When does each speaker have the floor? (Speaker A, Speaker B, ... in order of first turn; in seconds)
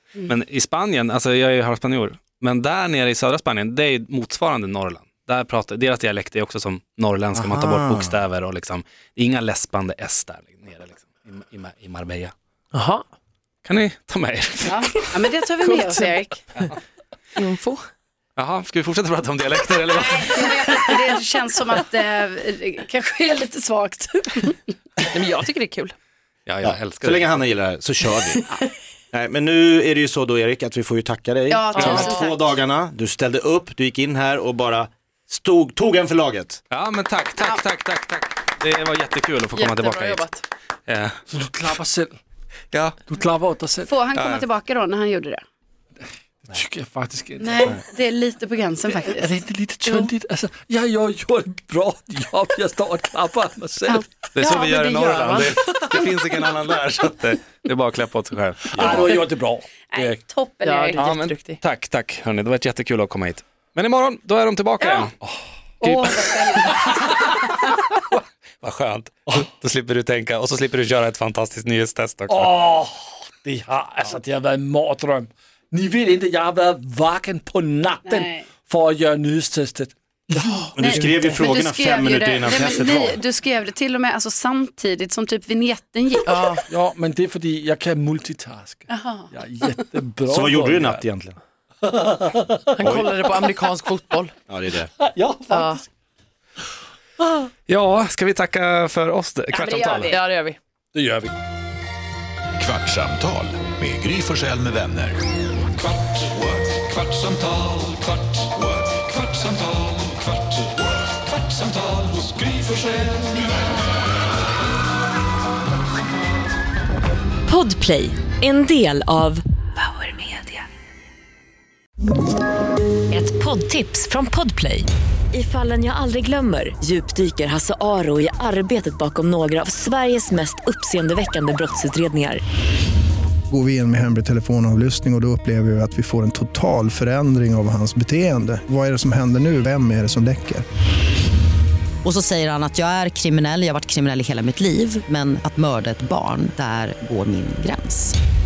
Speaker A: 0.3-12.3, 13.6-15.1, 18.4-20.4, 26.4-27.3, 36.7-40.2, 40.9-41.2, 42.7-43.0, 44.1-44.4, 54.3-59.1, 61.0-65.1, 68.6-72.5, 97.7-100.1
Speaker B: 7.3-8.2, 26.6-28.4, 29.1-36.6, 80.7-83.2, 90.3-91.4, 92.8-93.1, 94.5-94.9
Speaker C: 12.7-13.0, 15.6-16.7, 17.4-17.8, 25.1-25.9, 39.5-40.5, 54.4-56.2, 60.6-61.6, 80.3-80.7, 86.2-86.7, 92.8-94.3, 95.5-95.8, 100.1-100.6
Speaker D: 14.7-16.4, 20.0-24.7, 31.5-32.5, 37.4-37.6, 43.8-45.4, 47.4-49.3, 49.8-50.1, 59.9-61.1, 64.8-65.1, 65.8-66.9, 78.0-78.5, 80.7-86.4, 88.9-89.3, 99.5-100.2
Speaker E: 41.3-42.2, 43.0-43.9, 46.5-47.8, 49.0-54.0, 58.6-60.2, 66.8-67.2, 72.3-81.0, 86.7-91.0, 91.8-93.3, 95.0-95.8, 100.9-101.3
Speaker F: 102.6-105.2, 106.3-113.3
Speaker G: 117.5-120.6, 123.1-132.4
Speaker H: 133.5-140.6
Speaker I: 142.0-148.1